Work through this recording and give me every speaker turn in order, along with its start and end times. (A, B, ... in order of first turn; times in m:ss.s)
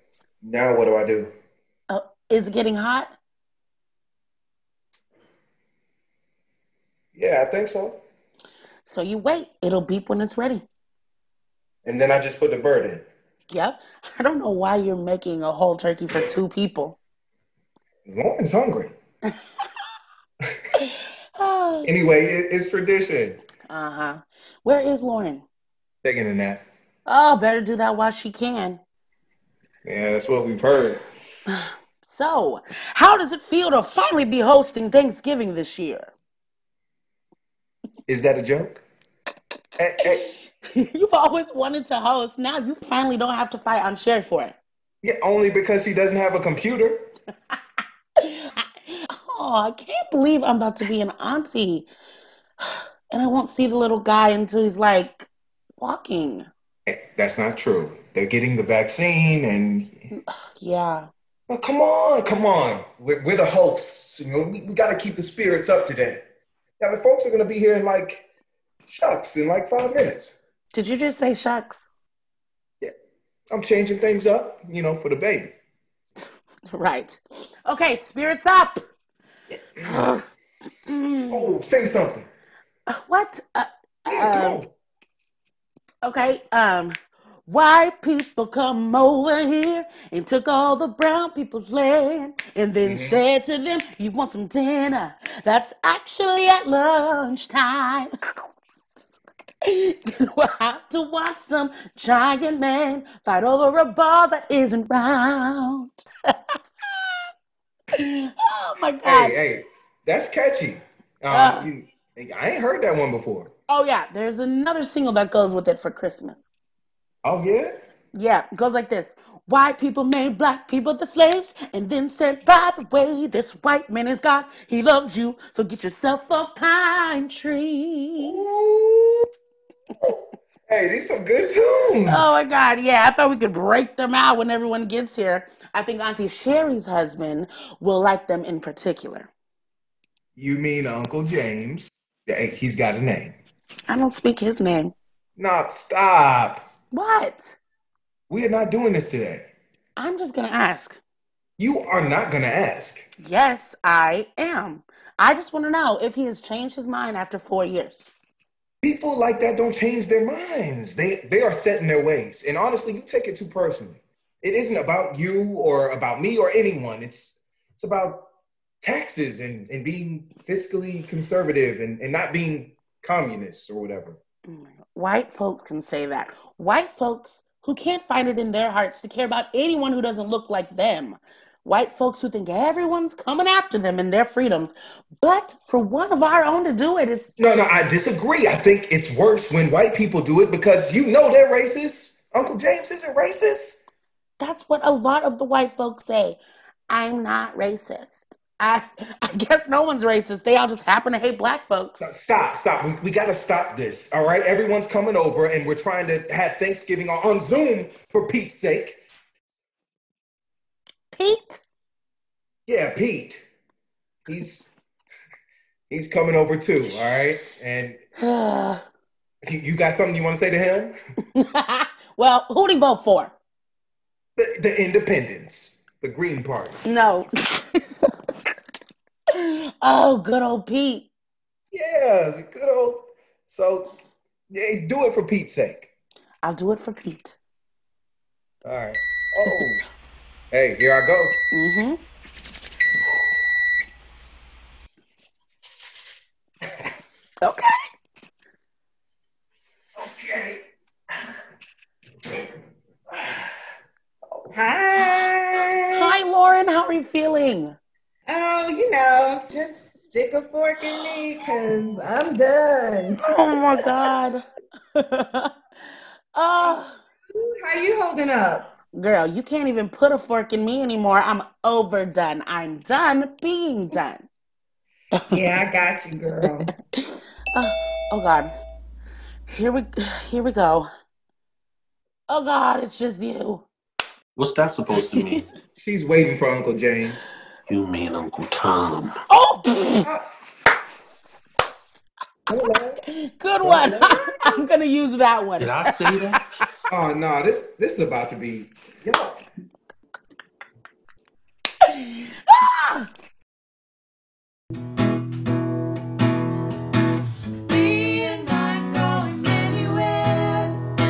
0:00.4-0:01.3 A
0:01.9-0:03.1 B
0:07.2-0:08.0 A
0:08.9-0:10.7 B
0:11.8-0:13.0 A
0:13.5-0:17.0 B
0:18.1-0:18.9 A
0:20.8-0:21.9 B
0:21.8-0:23.4 A
0:23.7-0:25.4 B
0:26.0-0:26.6 A
0:27.1-0:28.8 B
0:29.8-0:31.0 A
0:31.5-0:36.1 B
0:38.1-0:38.8 A
0:39.8-0:40.3 A
0:40.2-0:44.6 B
0:45.0-0:47.0 A
0:48.2-0:51.9 B
0:52.6-0:56.5 B
0:56.9-1:00.1 A
1:00.1-1:01.1 B
1:01.5-1:06.2 A
1:06.8-1:08.2 A
1:08.9-1:10.4 A
1:10.7-1:11.9 B
1:13.5-1:15.5 A
1:16.7-1:18.8 B
1:19.5-1:20.1 A
1:19.8-1:20.2 B
1:20.9-1:21.5 B
1:21.3-1:22.3 A
1:22.9-1:24.6 B
1:24.1-1:24.7 A
1:26.0-1:26.9 B
1:27.5-1:38.1 B
1:32.8-1:33.2 A
1:39.6-1:46.0 B
1:48.0-1:49.4 B
1:49.0-1:53.5 A
1:51.3-1:51.7 B
1:53.7-1:56.5 B
1:57.2-1:57.7 A
1:58.2-2:08.4 B
2:08.2-2:09.3 A
2:10.0-2:12.5 A
2:12.1-2:19.3 B
2:20.4-2:23.4 A
2:23.9-2:24.9 B
2:25.4-2:26.7 A
2:26.9-2:27.6 B
2:28.3-2:29.5 A
2:30.0-2:31.0 B
2:31.6-2:33.1 A
2:33.2-2:38.1 B
2:38.8-2:48.3 A
2:48.8-2:54.2 A
2:54.5-3:07.8 B
3:07.4-3:13.8 A
3:14.4-3:16.4 B
3:16.9-3:22.1 B
3:22.0-3:29.0 A
3:31.1-3:31.6 B
3:32.7-3:33.4 A
3:34.3-3:34.7 A
3:35.9-3:38.0 A
3:38.2-3:38.8 B
3:39.4-3:41.0 A
3:41.4-3:43.4 B
3:44.4-3:46.8 A
3:46.8-3:48.1 B
3:49.3-3:51.1 B
3:51.7-3:53.9 A
3:54.5-3:55.9 A
3:56.4-3:57.4 B
3:58.6-3:59.8 A
4:00.5-4:01.4 A
4:01.5-4:02.0 B
4:07.4-4:07.7 B
4:10.0-4:10.6 A
4:14.5-4:16.1 C
4:15.9-4:17.8 B
4:18.3-4:23.2 C
4:23.2-4:24.4 B
4:25.0-4:25.5 B
4:26.4-4:27.0 B
4:27.4-4:28.7 C
4:28.9-4:34.3 B
4:35.2-4:35.4 B
4:35.3-4:36.7 C
4:37.0-4:38.5 B
4:39.5-4:40.9 B
4:42.3-4:43.7 B
4:44.4-4:45.4 D
4:45.8-4:47.3 A
4:47.7-4:49.1 D
4:49.3-4:50.1 B
4:50.0-4:50.5 A
4:52.5-4:53.0 A
4:53.2-4:56.4 B
4:53.6-4:54.2 A
4:55.6-4:56.4 D
4:56.9-4:59.4 A
5:01.8-5:03.1 B
5:07.7-5:10.8 C